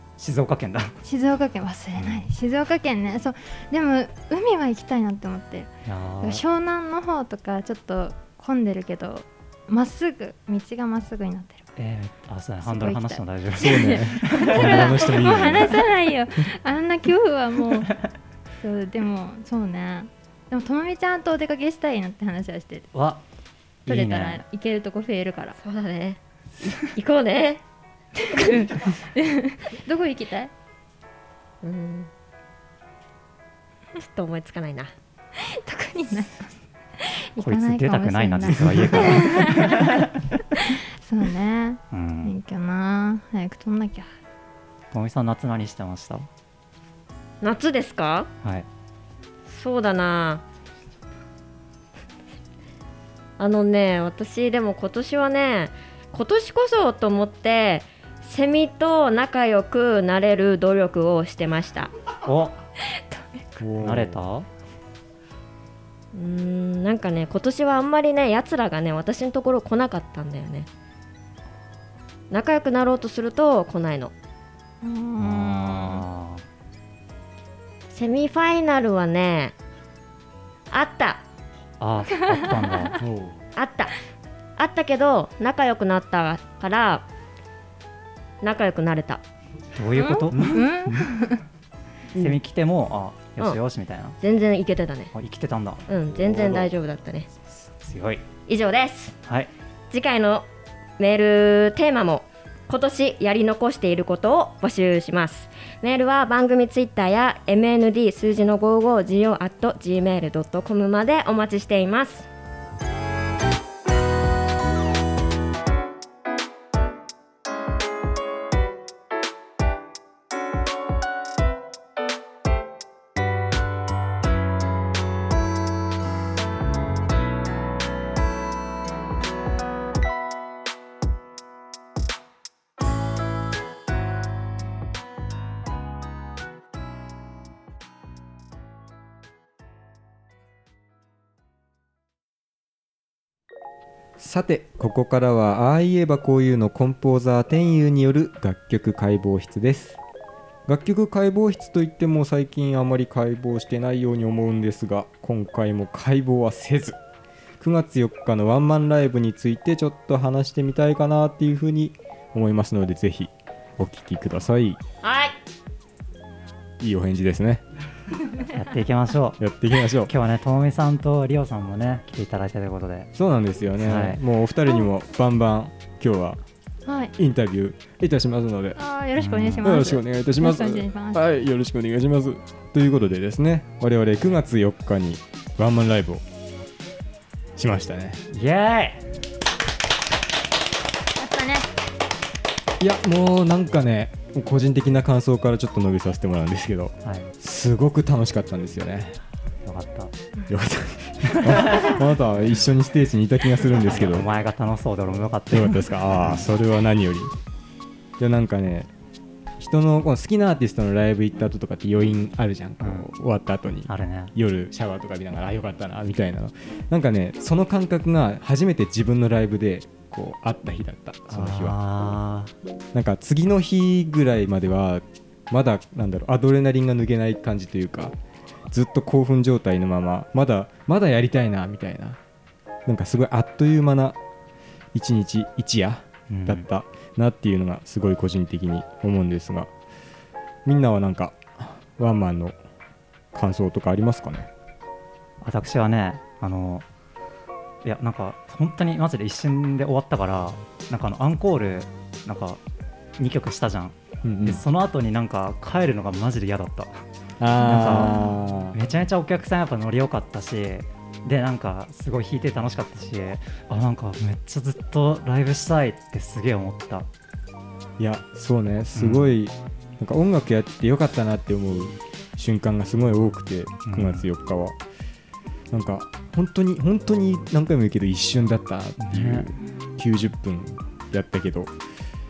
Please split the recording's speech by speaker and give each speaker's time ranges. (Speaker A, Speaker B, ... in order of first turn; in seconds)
Speaker A: 0.2-0.9, 5.8-6.4, 11.8-15.2, 22.9-23.2, 23.9-24.4, 37.4-40.1, 41.9-42.3, 44.9-46.3, 62.2-62.6, 63.6-64.5, 75.2-76.4, 81.8-83.0, 89.8-90.7, 92.2-94.2, 95.1-96.7, 97.6-98.2, 168.4-169.5, 170.0-173.1, 173.8-174.2, 179.2-179.7, 188.3-189.0, 197.0-197.3, 199.7-200.2, 201.3-202.0, 203.8-206.4, 212.8-213.1, 213.9-214.3, 221.3-222.5, 236.3-236.7, 245.4-246.8, 247.8-252.6, 253.2-257.0, 257.6-267.1, 268.9-269.3, 273.9-274.3, 279.0-279.5
Speaker B: 1.0-11.6, 12.6-17.9, 18.6-22.9, 23.9-25.6, 28.2-30.5, 35.4-44.1, 74.8-76.0, 82.2-82.9, 90.0-91.4, 176.8-177.1, 178.8-181.2, 191.2-191.7, 258.0-258.3
Speaker C: 13.6-15.9, 38.6-39.2, 63.6-64.2, 83.0-83.4, 90.3-91.1, 144.2-150.0, 150.7-157.0, 157.6-164.8, 166.8-167.6, 169.4-170.1, 173.2-176.4, 177.2-178.8, 179.6-186.2, 187.6-188.2, 192.8-199.2, 200.5-204.3, 205.5-207.3, 208.2-208.9, 209.6-221.8, 222.9-228.2, 228.7-232.2, 232.8-234.2, 234.9-239.7, 240.7-242.6, 243.3-244.5, 254.2-254.6, 257.4-258.8, 268.0-274.8, 275.7-281.7
Speaker D: 25.6-27.6, 31.6-32.1, 34.0-34.9, 47.4-48.3, 49.5-50.4, 53.4-61.9, 66.1-70.7, 72.3-74.1, 77.9-79.5, 80.7-81.2, 83.6-83.9, 84.6-87.1, 88.4-89.2, 94.2-95.1, 95.9-97.3, 98.5-99.2, 99.9-100.5, 101.0-112.3, 165.0-165.3